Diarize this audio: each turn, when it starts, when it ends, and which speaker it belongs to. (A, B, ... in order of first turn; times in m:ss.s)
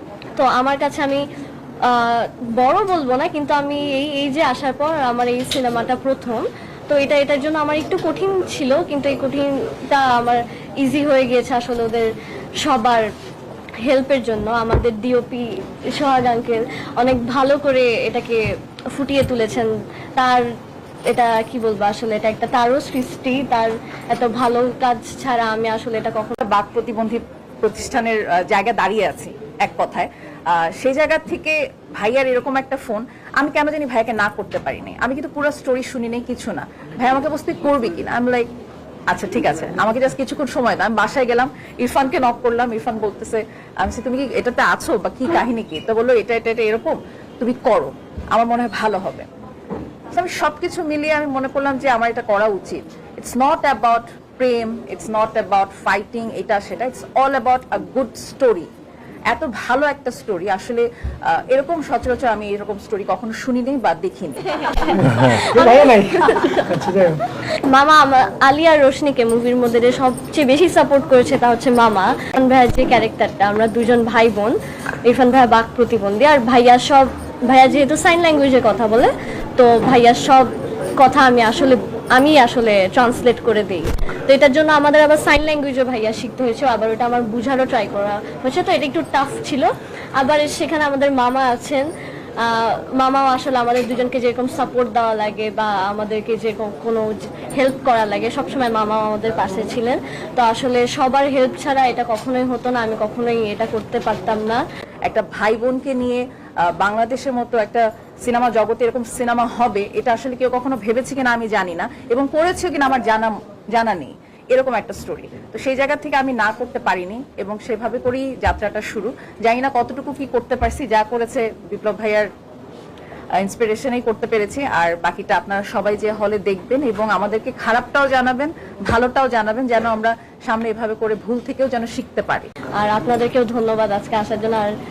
0:00.4-0:01.2 A
0:01.8-0:13.1 A
0:13.8-0:18.4 A
0:18.9-0:20.4 A
0:21.1-0:26.4 A
0:26.4-0:38.5 B
0:39.1-0:49.3 B
0:50.1-0:58.7 B
0:59.3-1:04.5 B
1:04.7-1:06.7 A
1:04.9-1:07.2 C
1:07.5-1:31.9 A
1:32.4-1:44.6 A
1:45.0-1:46.2 B
1:46.7-2:02.3 B
2:03.4-2:12.5 B
2:12.8-2:14.7 A